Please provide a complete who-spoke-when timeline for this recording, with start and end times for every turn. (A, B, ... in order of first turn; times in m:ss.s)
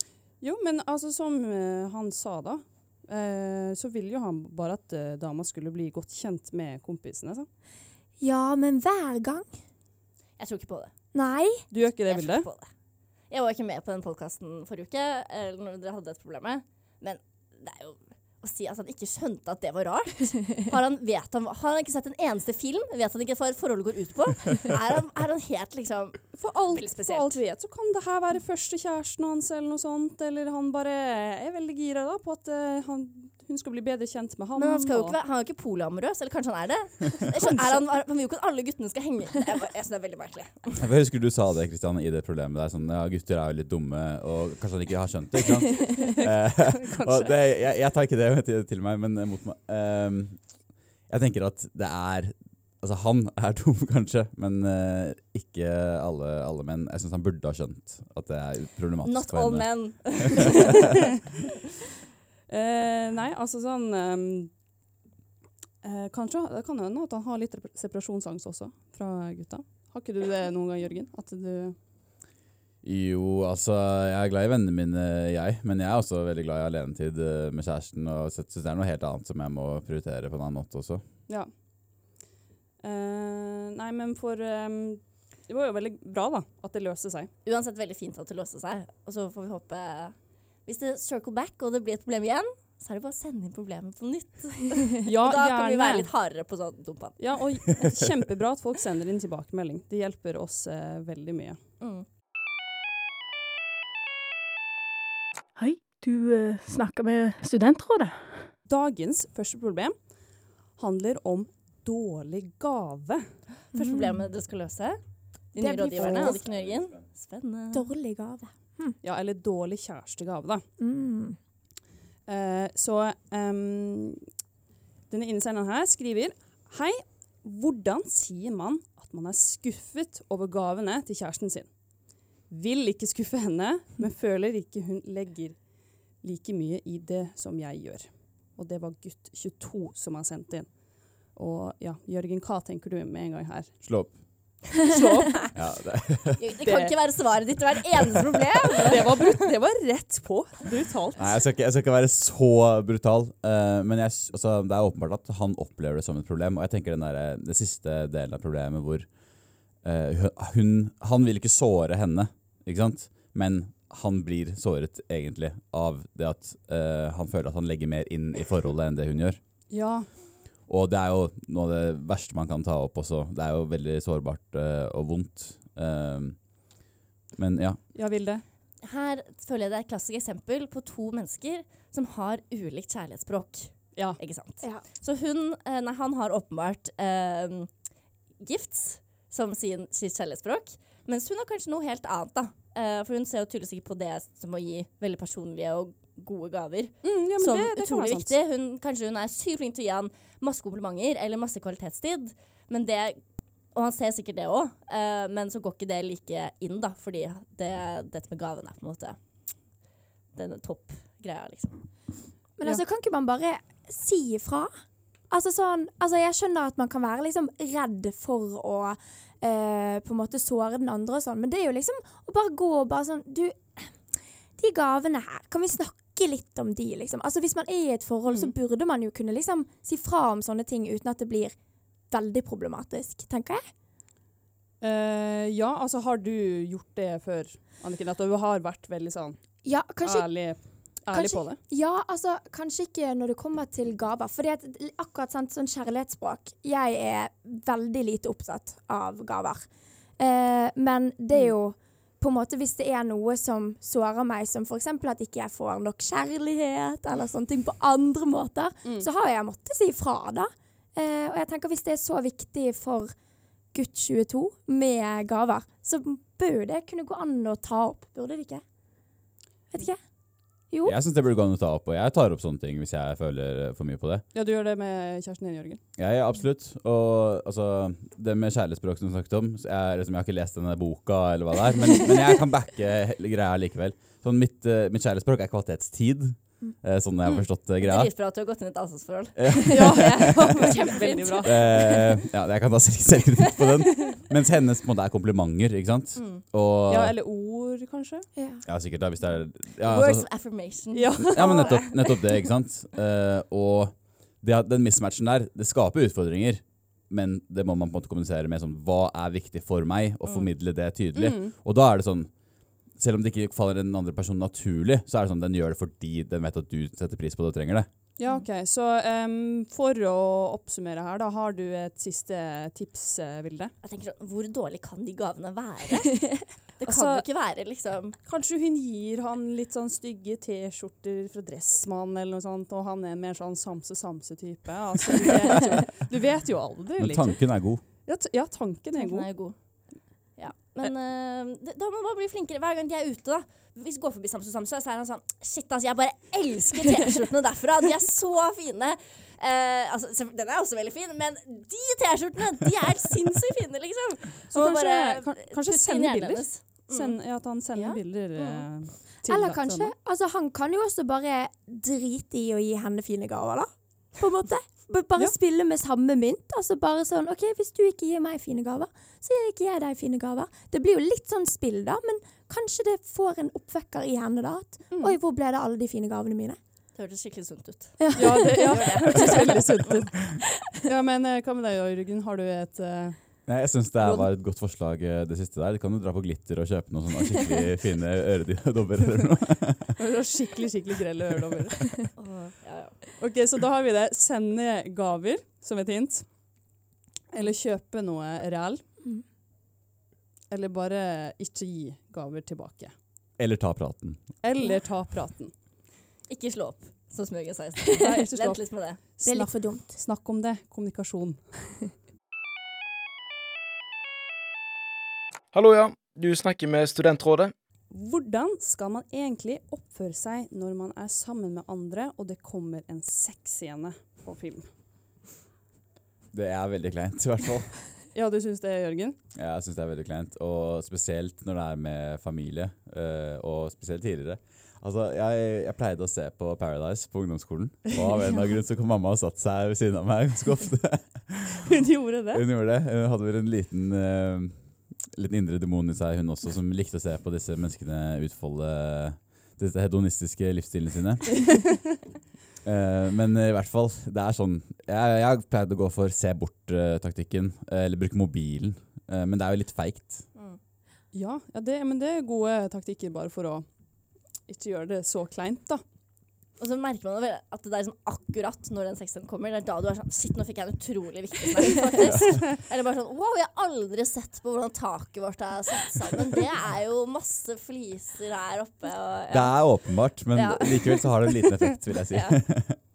0:00.4-0:07.5 A
0:08.2-0:09.6 B
0:10.4-0:10.9 C
0:11.1-0:11.6 B
0:11.7-0:12.5 A
0:12.0-0:12.7 C
0:13.3-0:27.4 C
0:26.3-0:35.2 A
0:34.6-0:40.8 C
0:37.4-0:37.8 A
0:40.8-0:50.4 D
0:46.0-0:47.3 A
0:51.1-1:00.4 D
0:59.0-1:00.9 C
1:02.5-1:04.5 A
1:05.8-1:11.8 A
1:12.8-1:21.0 D
1:22.8-1:27.3 A
1:27.4-1:37.4 C
1:35.0-1:36.1 A
1:37.2-1:41.6 A
1:41.8-1:42.0 C
1:45.6-1:48.5 E
1:48.6-1:49.9 A
1:50.8-1:53.2 A
1:53.7-1:55.0 C
1:53.7-1:54.2 B
1:55.5-1:57.9 C
1:55.6-1:56.4 A
1:55.6-1:56.4 B
1:56.5-1:56.9 D
1:57.7-1:59.0 B
1:59.0-2:00.6 A
2:00.8-2:01.4 B
2:02.3-2:04.2 A
2:05.1-2:11.7 A
2:12.5-2:15.6 A
2:16.2-2:23.7 A
2:23.8-2:24.2 D
2:24.8-2:25.6 A
2:25.5-2:26.4 D
2:26.4-2:29.4 C
2:26.6-2:26.9 A
2:28.9-2:31.3 A
2:31.2-2:39.1 D
2:39.8-2:49.4 D
2:49.7-2:50.1 A
2:50.7-2:56.4 D
2:57.4-2:57.8 D
2:57.9-2:58.4 A
2:58.8-3:07.7 C
3:08.4-3:23.2 C
3:17.0-3:18.3 A
3:23.7-3:29.2 C
3:30.3-3:31.8 C
3:32.6-3:34.7 B
3:35.3-3:44.0 B
3:44.6-3:51.6 B
3:52.1-3:53.7 B
3:54.8-3:59.4 A
3:59.6-4:00.3 B
4:00.0-4:01.6 A
4:01.1-4:09.7 B
4:10.2-4:23.1 B
4:23.7-4:28.6 B
4:29.7-4:30.0 B
4:30.7-4:31.0 B
4:30.8-4:34.2 D
4:34.3-4:35.8 A
4:36.0-4:48.1 D
4:47.8-4:52.2 C
4:49.4-4:50.8 D
4:49.7-4:52.0 A
4:51.4-4:57.2 D
4:56.2-4:56.4 C
4:56.9-4:58.3 A
4:58.4-4:58.6 B
4:58.6-5:00.2 D
4:59.8-5:01.8 C
5:00.9-5:02.1 A
5:01.3-5:12.3 D
5:10.2-5:10.5 C
5:11.1-5:11.5 A
5:12.9-5:17.9 D
5:18.2-5:23.7 A
5:23.8-5:28.2 C
5:26.8-5:27.2 A
5:28.2-5:39.4 A
5:37.0-5:37.8 D
5:38.9-5:58.7 C
5:54.5-5:59.9 A
5:59.3-6:16.6 B
6:14.9-6:15.2 A
6:16.9-6:19.9 C
6:18.0-6:19.2 B
6:18.2-6:20.2 A
6:20.8-6:23.2 A
6:23.5-6:29.9 D
6:30.0-6:31.9 A
6:32.2-6:33.0 C
6:33.2-6:36.3 A
6:37.3-6:38.8 A
6:40.5-6:42.9 A
6:43.4-6:44.2 D
6:44.4-6:45.5 A
6:46.3-6:49.0 C
6:47.9-6:51.8 A
6:49.2-6:50.0 B
6:55.5-6:57.5 F
6:57.9-7:04.7 A
7:06.3-7:07.8 D
7:08.1-7:09.2 A
7:09.3-7:21.6 D
7:21.7-7:22.4 A
7:22.3-7:31.7 D
7:32.6-7:40.2 D
7:41.1-7:43.6 A
7:44.4-7:45.8 A
7:46.6-8:01.5 C
7:52.0-7:52.4 D
7:59.3-8:02.8 D
8:02.1-8:02.4 C